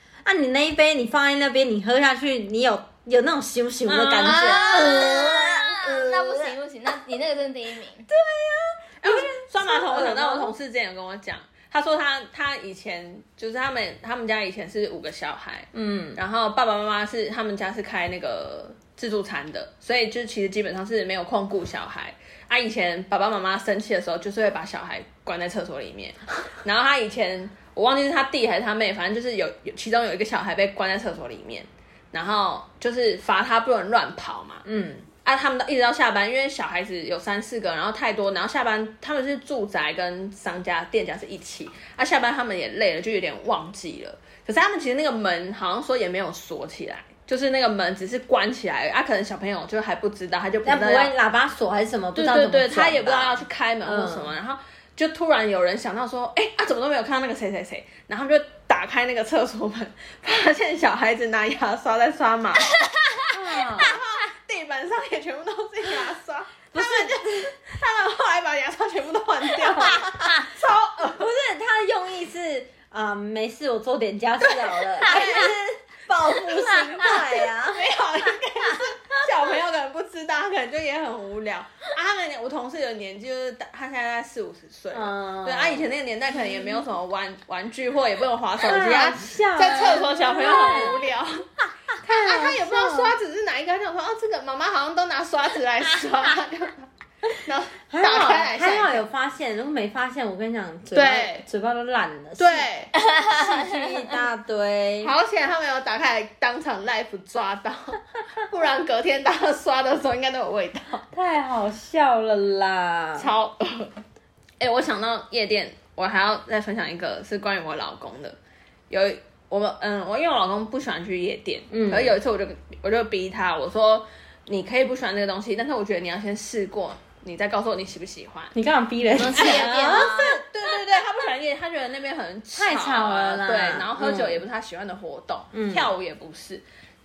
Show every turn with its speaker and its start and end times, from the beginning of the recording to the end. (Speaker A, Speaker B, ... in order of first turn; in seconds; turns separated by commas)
Speaker A: 0.2-6.5, Speaker B: 3.9-5.3, Speaker C: 4.2-8.1, Speaker A: 8.1-10.5, Speaker B: 9.0-51.1, Speaker A: 15.7-16.2, Speaker A: 34.6-35.0, Speaker A: 50.6-54.3, Speaker B: 52.1-71.2, Speaker C: 62.8-63.2, Speaker A: 63.5-63.9, Speaker A: 66.7-67.5, Speaker A: 69.7-70.5, Speaker A: 71.0-77.9, Speaker B: 74.5-75.5, Speaker B: 76.5-91.5, Speaker A: 84.9-85.9, Speaker A: 88.6-91.0, Speaker B: 92.0-99.0, Speaker A: 92.0-93.1, Speaker A: 97.9-102.7, Speaker B: 100.9-101.4, Speaker B: 102.4-102.9, Speaker C: 102.9-103.9, Speaker A: 103.3-105.1, Speaker B: 105.0-111.0, Speaker A: 111.1-113.3, Speaker B: 113.2-113.9, Speaker B: 114.6-118.4, Speaker B: 118.9-128.5, Speaker A: 121.7-122.2, Speaker A: 128.5-130.4, Speaker C: 129.1-130.3, Speaker B: 129.4-136.6, Speaker A: 132.5-134.4, Speaker A: 135.5-135.9